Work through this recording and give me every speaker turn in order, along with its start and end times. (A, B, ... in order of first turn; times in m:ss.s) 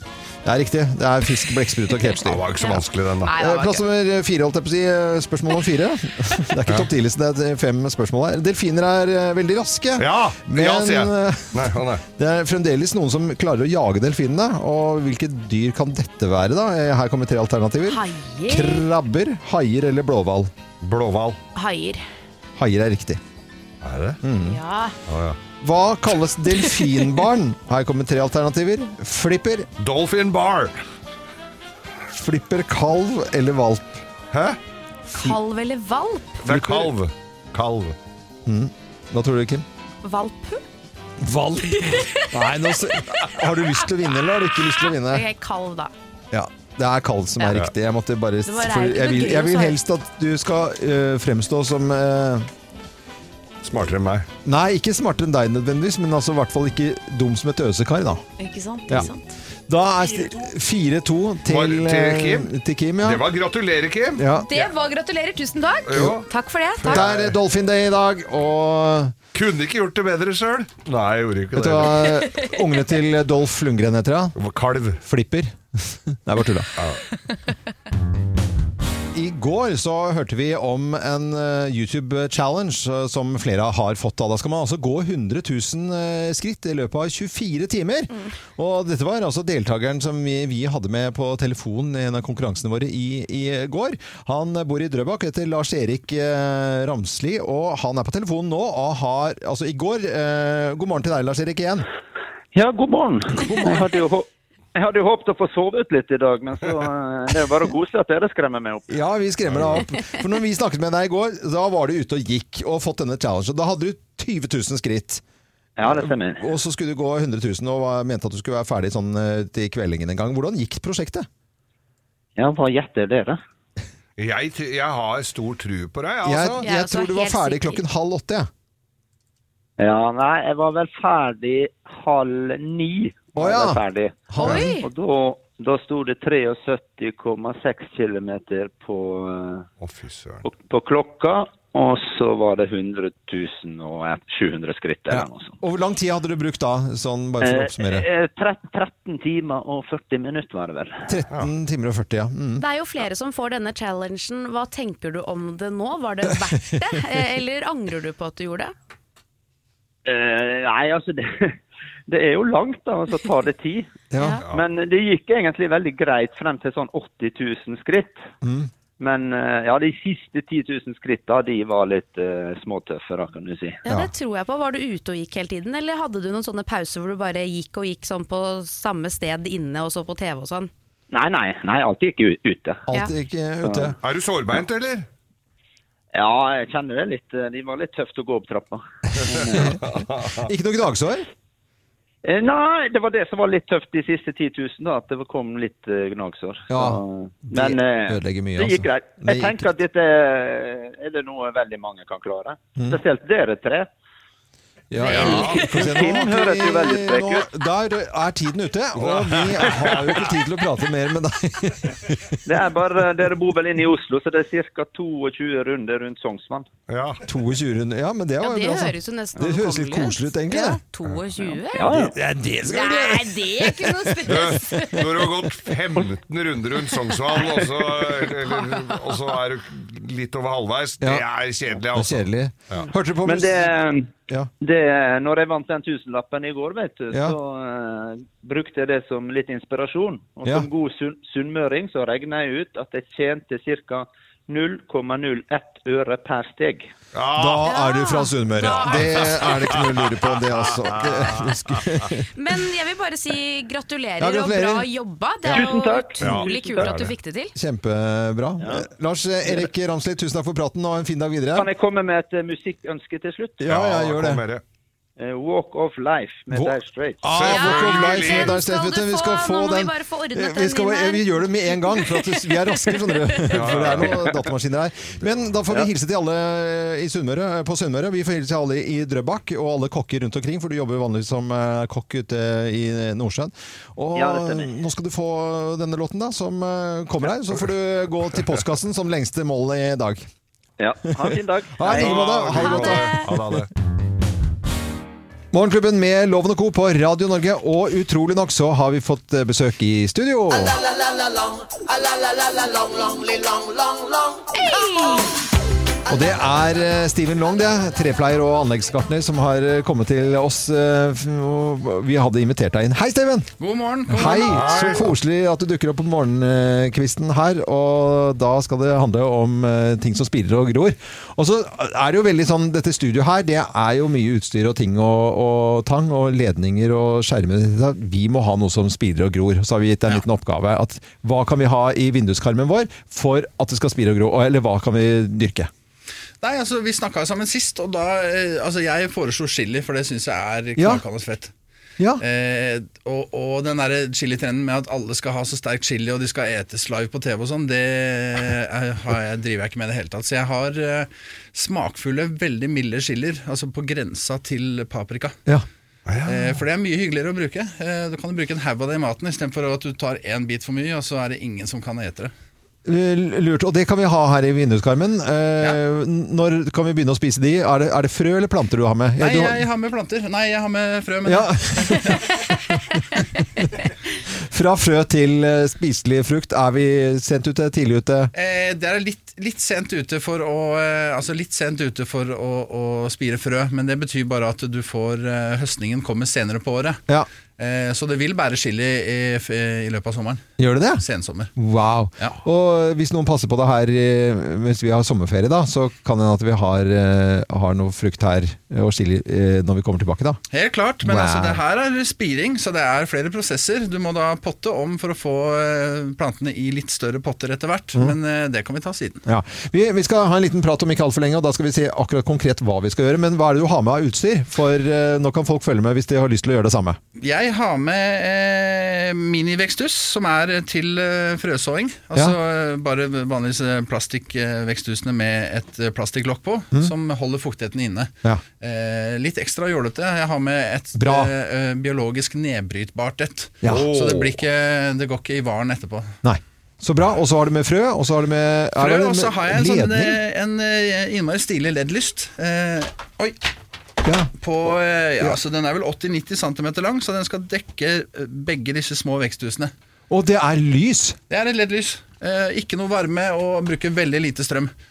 0:00.4-0:02.5 A
0:02.2-0:03.4 B
0:02.6-0:03.8 C
0:03.4-0:20.5 A
0:10.0-0:12.0 B
0:17.9-0:18.9 C
0:20.8-0:21.4 B
0:21.6-0:22.0 C
0:22.6-0:23.2 A
0:23.8-0:24.2 B
0:24.2-0:24.6 A
0:24.5-0:25.0 C
0:25.1-0:25.4 B
0:25.6-0:29.7 A
0:29.8-0:30.8 B
0:32.1-0:34.0 A
0:34.3-0:34.6 B
0:35.1-0:36.4 C
0:36.4-0:38.0 B
0:36.5-0:36.9 A
0:38.5-0:39.6 A
0:40.0-0:40.6 C
0:41.2-0:45.2 A
0:41.8-0:42.3 C
0:44.5-0:45.9 C
0:46.3-0:52.5 A
0:48.4-0:49.8 C
0:53.6-0:54.3 B
0:54.4-0:58.2 A
0:58.4-0:59.3 C
0:59.7-1:03.2 A
1:01.5-1:04.6 B
1:04.2-1:04.5 A
1:04.5-1:07.0 C
1:05.9-1:07.4 B
1:06.9-1:09.2 A
1:09.3-1:12.2 B
1:11.6-1:14.4 A
1:14.4-1:15.0 B
1:15.0-1:16.7 A
1:16.8-1:17.0 B
1:19.1-1:41.9 A
1:42.5-1:48.9 D
1:43.4-1:43.9 A
1:48.9-1:55.2 A
1:49.5-1:49.9 B
1:55.8-1:56.5 D
1:55.8-2:01.3 A
2:02.4-2:03.4 D
2:04.2-2:06.6 B
2:06.2-2:08.5 A
2:06.6-2:07.8 C
2:09.8-2:19.7 D
2:13.4-2:14.7 A
2:14.4-2:14.9 C
2:19.8-2:20.5 B
2:20.4-2:25.6 D
2:25.1-2:28.1 A
2:27.4-2:31.0 D
2:31.1-2:32.6 A
2:32.6-2:38.7 C
2:40.0-2:41.6 D
2:42.1-2:43.9 D
2:44.1-2:44.4 A
2:44.2-2:44.4 C
2:44.5-2:48.2 D
2:48.4-2:48.7 A
2:49.0-2:53.8 D
2:53.8-3:00.7 C
2:53.9-2:54.1 A
3:01.1-3:02.8 D
3:02.9-3:04.0 A
3:03.6-3:03.9 D
3:04.0-3:05.1 B
3:06.1-3:09.8 D
3:09.2-3:11.2 A
3:09.8-3:10.4 B
3:12.2-3:23.9 D
3:16.7-3:19.6 A
3:24.9-3:32.4 A
3:25.1-3:27.5 D
3:25.1-3:25.7 B
3:29.0-3:30.4 B
3:32.5-3:36.7 D
3:36.9-3:37.2 B
3:37.2-3:40.8 A
3:38.4-3:42.1 C
3:41.1-3:41.5 B
3:41.7-3:42.2 D
3:41.9-3:44.9 A
3:42.7-3:45.0 C
3:44.2-3:52.9 B
3:47.4-3:48.2 D
3:48.6-3:49.0 C
3:51.9-3:53.7 A
3:53.2-4:06.9 D
4:07.1-4:07.7 B
4:07.4-4:12.3 A
4:07.7-4:09.8 C
4:08.8-4:09.6 B
4:10.8-4:11.5 B
4:12.3-4:17.5 C
4:14.2-4:14.9 A
4:15.5-4:16.9 D
4:16.2-4:17.1 B
4:17.6-4:21.7 A
4:21.6-4:23.7 D
4:23.6-4:24.4 A
4:23.6-4:24.6 B
4:25.2-4:27.2 D
4:26.5-4:50.2 A
4:27.3-4:28.6 B
4:27.4-4:33.6 C
4:33.5-4:34.3 B
4:44.2-4:44.7 D
4:50.8-4:52.2 D
4:51.1-4:53.6 A
4:51.8-4:53.7 B
4:52.6-4:53.3 C
4:55.5-5:00.8 A
5:04.5-5:05.4 C
5:06.1-5:13.5 A
5:13.6-5:15.0 E
5:14.1-5:35.7 A
5:14.2-5:15.1 B
5:36.4-5:41.5 E
5:40.8-5:41.0 A
5:42.2-5:55.4 E
5:56.1-5:56.5 B
5:56.2-6:02.3 E
6:02.9-6:09.6 A
6:09.2-6:12.4 E
6:11.2-6:12.2 A
6:14.5-6:18.3 A
6:18.3-6:27.0 E
6:27.6-6:31.5 E
6:30.6-6:31.0 A
6:31.6-6:40.4 A
6:40.5-6:49.2 E
6:41.0-6:41.6 A
6:49.3-6:57.0 A
6:57.2-7:16.1 E
7:11.0-7:11.3 A
7:13.6-7:13.9 A
7:13.7-7:14.4 B
7:16.2-7:20.2 A
7:18.8-7:23.4 E
7:24.0-7:24.3 A
7:24.4-7:29.7 E
7:30.1-7:31.2 A
7:31.3-7:34.7 E